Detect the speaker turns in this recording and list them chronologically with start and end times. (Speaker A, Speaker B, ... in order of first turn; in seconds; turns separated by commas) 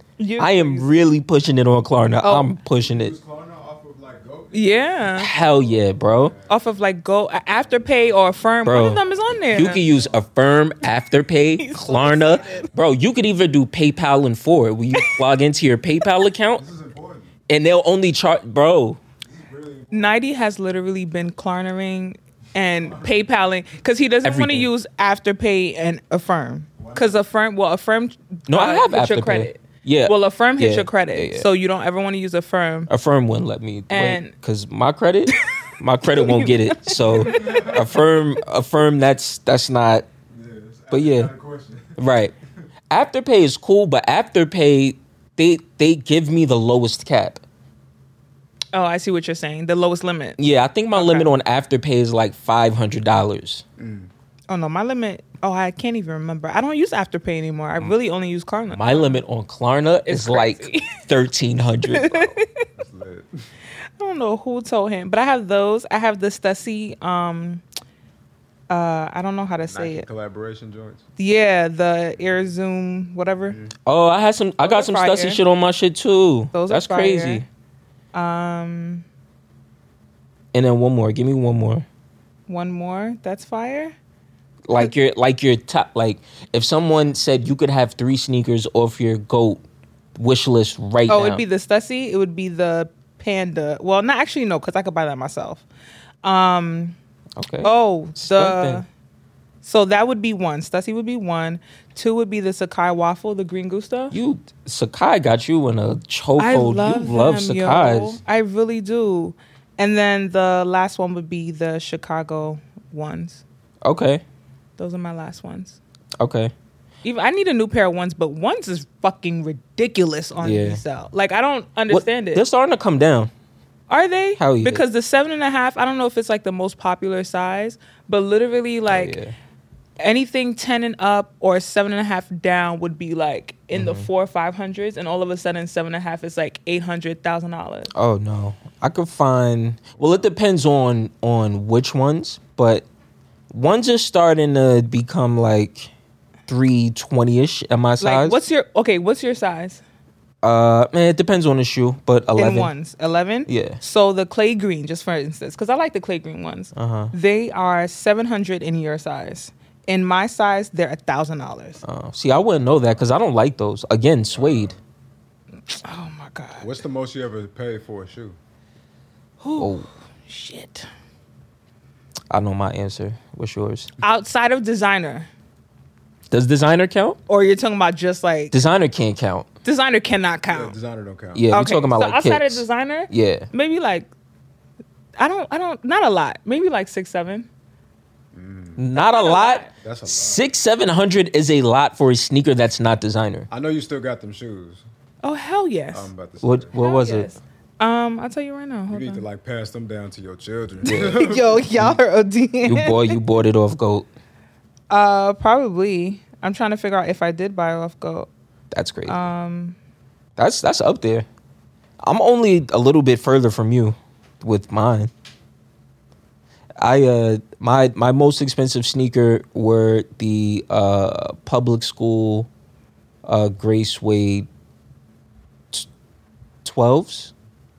Speaker A: 0.2-1.0, Speaker B: 0.4-3.1, Speaker A: 2.2-2.5, Speaker C: 2.8-6.5, Speaker A: 4.5-5.3, Speaker B: 5.1-6.3, Speaker A: 6.5-9.8, Speaker B: 8.6-9.0, Speaker B: 9.5-16.6, Speaker A: 11.6-12.7, Speaker A: 14.9-15.2, Speaker C: 16.6-17.3, Speaker B: 17.5-19.0, Speaker C: 19.3-20.2, Speaker A: 19.9-32.9, Speaker C: 22.8-23.1, Speaker B: 24.2-24.7, Speaker C: 26.8-27.2, Speaker B: 28.5-31.5, Speaker B: 32.9-40.1, Speaker A: 33.9-34.3, Speaker A: 36.0-37.7, Speaker C: 37.0-38.0, Speaker C: 40.3-42.0, Speaker B: 40.9-41.3, Speaker B: 42.0-42.3, Speaker B: 42.9-47.4, Speaker A: 48.7-50.4, Speaker B: 50.4-53.6, Speaker A: 50.9-51.3, Speaker C: 53.8-54.1, Speaker A: 54.5-59.2, Speaker B: 58.7-62.3, Speaker A: 60.1-61.0, Speaker A: 61.9-62.6, Speaker C: 62.8-63.3, Speaker A: 64.0-67.6, Speaker A: 68.7-70.1, Speaker C: 69.7-71.0, Speaker A: 71.2-73.6, Speaker B: 73.8-77.4, Speaker A: 74.6-75.4, Speaker A: 76.5-77.4, Speaker A: 78.1-79.0, Speaker B: 80.5-81.8, Speaker A: 82.5-83.9, Speaker B: 84.7-89.6, Speaker B: 90.2-91.4, Speaker A: 91.1-95.6, Speaker A: 96.2-97.0, Speaker B: 97.4-98.8, Speaker A: 97.6-98.8, Speaker A: 99.6-104.1, Speaker B: 104.1-108.2, Speaker A: 106.4-113.4, Speaker B: 113.8-114.2, Speaker A: 114.8-115.8, Speaker B: 116.2-116.5, Speaker A: 117.0-122.4, Speaker B: 120.4-120.8, Speaker B: 121.9-123.3, Speaker A: 123.9-129.2, Speaker B: 124.4-124.8, Speaker B: 128.9-129.3, Speaker A: 130.0-137.9, Speaker B: 133.7-134.1, Speaker B: 137.9-142.8, Speaker B: 143.5-145.9, Speaker B: 146.5-148.4, Speaker A: 148.0-149.8, Speaker B: 150.4-152.7, Speaker A: 152.4-161.8, Speaker B: 153.5-153.8, Speaker B: 156.7-157.1, Speaker B: 161.8-164.7, Speaker C: 164.3-164.8, Speaker A: 165.7-166.7, Speaker C: 166.6-168.3, Speaker A: 169.4-170.9, Speaker B: 169.6-169.9, Speaker B: 172.3-173.9, Speaker A: 174.0-175.3, Speaker B: 176.3-177.2, Speaker A: 177.3-178.5, Speaker B: 178.5-179.5, Speaker A: 179.6-180.7, Speaker C: 180.5-181.5, Speaker B: 181.3-183.5, Speaker A: 181.5-184.1, Speaker A: 185.2-187.5, Speaker C: 188.3-188.8, Speaker B: 188.8-193.5, Speaker A: 188.9-189.7, Speaker C: 189.8-190.4, Speaker C: 193.5-194.8, Speaker A: 195.2-196.1, Speaker C: 195.9-196.8, Speaker B: 196.4-197.3, Speaker A: 196.7-199.2, Speaker C: 198.9-201.7, Speaker B: 200.8-202.0, Speaker A: 200.9-203.2, Speaker B: 202.6-204.1, Speaker A: 204.9-208.3, Speaker B: 208.7-209.2, Speaker A: 209.1-209.8, Speaker B: 210.4-211.3, Speaker B: 212.0-215.1, Speaker B: 216.8-222.5, Speaker B: 223.2-224.5, Speaker B: 226.6-227.3